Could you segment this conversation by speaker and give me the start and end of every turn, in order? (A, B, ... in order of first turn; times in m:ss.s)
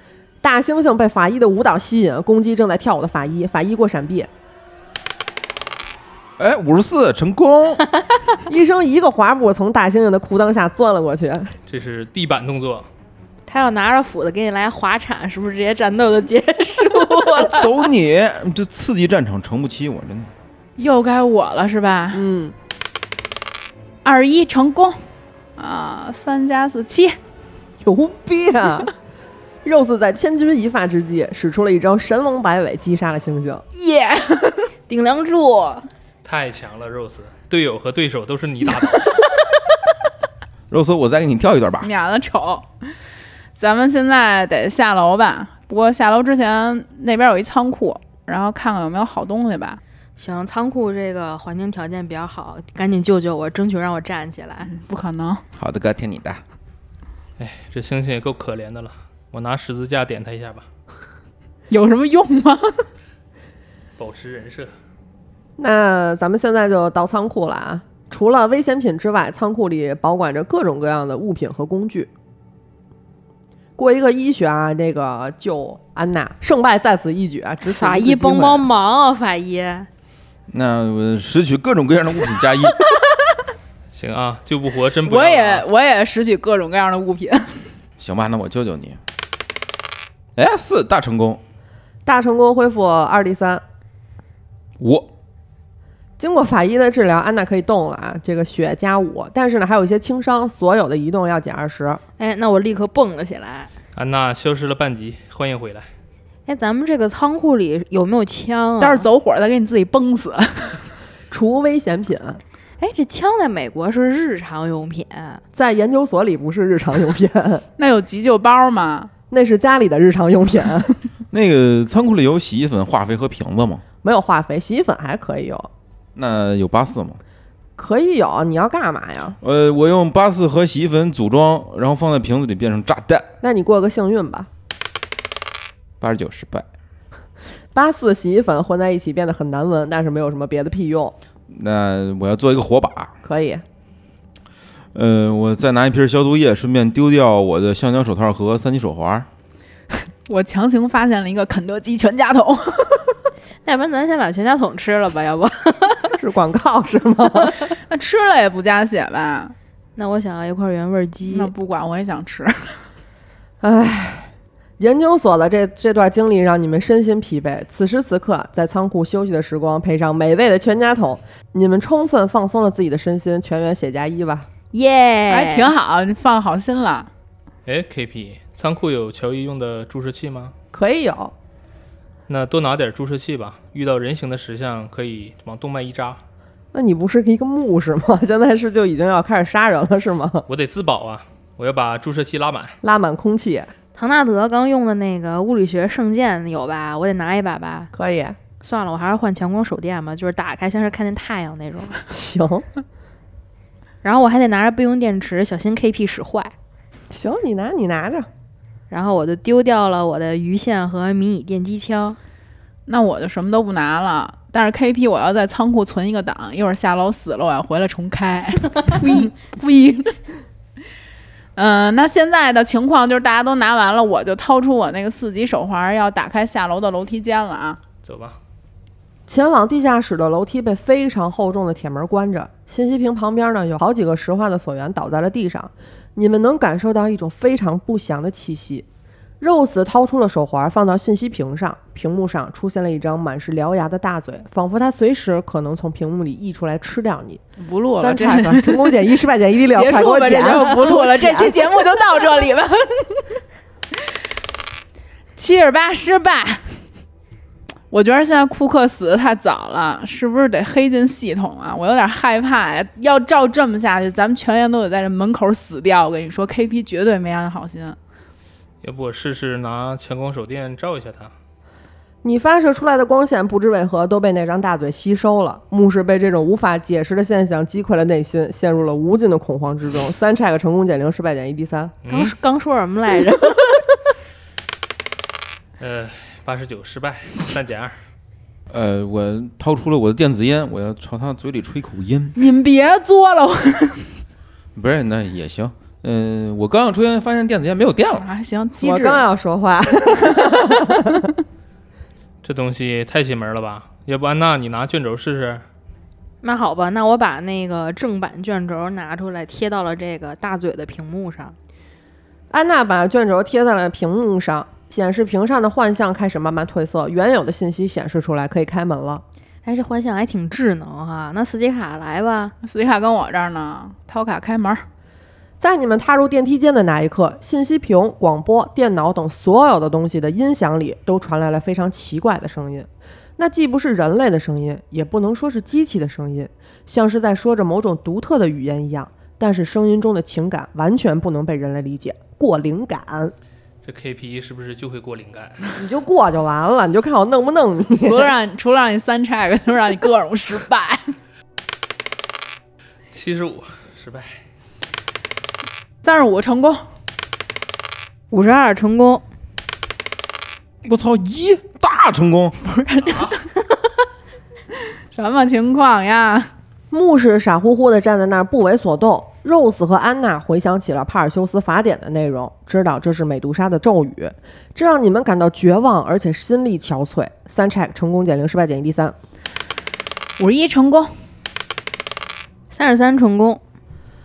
0:00.4-0:04.3 A
0:06.4-0:07.8 B
0:08.5-0:11.5 A
0:11.7-0:12.9 C
0:13.4-0:17.9 D
0:17.3-0:20.3 B
0:20.8-0:22.2 E
0:22.1-0:22.5 A
0:24.0-0:25.0 E
0:25.6-0:27.2 E
0:27.8-0:28.9 A
0:29.6-0:33.6 A
0:33.7-0:34.7 E
0:34.9-0:35.9 D
0:36.2-0:39.3 C
0:40.7-0:41.9 B
0:41.8-0:42.9 E
0:43.6-0:49.8 E
0:50.2-0:54.7 D
0:54.6-0:55.4 E
0:55.6-0:56.4 B
0:57.4-1:00.7 C
1:01.7-1:02.9 E
1:04.0-1:04.7 C
1:05.6-1:12.1 A
1:13.8-1:18.7 A
1:17.7-1:19.9 D
1:20.5-1:22.8 B
1:23.9-1:25.6 C
1:25.0-1:27.7 E
1:28.0-1:29.0 B
1:30.4-1:31.4 B
1:32.0-1:33.6 A
1:34.8-1:35.1 B
1:36.2-1:42.0 A
1:42.2-1:43.7 D
1:43.9-1:45.9 C
1:46.5-1:49.1 D
1:48.8-1:50.9 E
1:51.3-1:52.4 A
1:52.8-1:55.4 D
1:55.5-1:57.6 A
1:57.8-1:59.1 E
1:59.3-2:01.0 A
2:01.3-2:03.8 B
2:04.0-2:05.7 A
2:06.2-2:07.2 B
2:07.8-2:09.4 A
2:09.4-2:13.3 B
2:13.4-2:14.5 A
2:16.0-2:16.6 B
2:17.7-2:21.1 A
2:21.5-2:23.1 B
2:23.2-2:23.6 A
2:24.9-2:29.3 B
2:30.2-2:33.2 E
2:33.6-2:36.1 D
2:36.2-2:37.8 A
2:37.9-2:39.5 E
2:40.0-2:41.5 D
2:41.3-2:42.8 E
2:43.6-2:54.5 A
2:54.7-2:55.7 D
2:55.3-2:57.1 E
2:57.6-3:00.5 C
3:00.7-3:01.3 A
3:02.3-3:06.2 C
3:06.7-3:10.5 A
3:10.5-3:12.8 C
3:12.8-3:13.7 A
3:13.9-3:17.9 D
3:17.9-3:18.4 A
3:18.6-3:22.0 D
3:22.1-3:22.6 A
3:24.0-3:26.5 D
3:27.1-3:28.3 A
3:28.9-3:32.2 D
3:32.9-3:40.1 E
3:41.6-3:47.8 E
3:48.0-3:48.4 C
3:49.3-3:58.8 A
3:59.4-4:11.7 A
4:07.6-4:09.1 E
4:09.7-4:13.4 E
4:15.4-4:16.8 E
4:17.9-4:28.0 E
4:28.8-4:31.3 C
4:32.2-4:41.9 A
4:42.0-4:42.3 C
4:42.1-4:44.0 D
4:45.8-4:48.0 C
4:48.7-4:52.3 B
4:52.3-4:54.2 E
4:54.7-4:58.2 B
4:58.2-4:59.2 E
4:58.8-5:01.3 A
5:02.4-5:05.6 C
5:06.4-5:11.6 D
5:12.5-5:19.2 A
5:19.6-5:22.5 D
5:22.6-5:24.8 E
5:25.6-5:43.3 A
5:43.8-5:45.7 C
5:45.8-5:48.3 A
5:47.9-5:51.2 E
5:53.1-5:54.4 C
5:56.0-5:56.8 E
5:58.3-5:59.2 D
6:00.8-6:02.6 B
6:02.6-6:03.4 E
6:05.1-6:06.5 E
6:06.9-6:19.2 A
6:20.4-6:21.1 E
6:22.7-6:23.6 D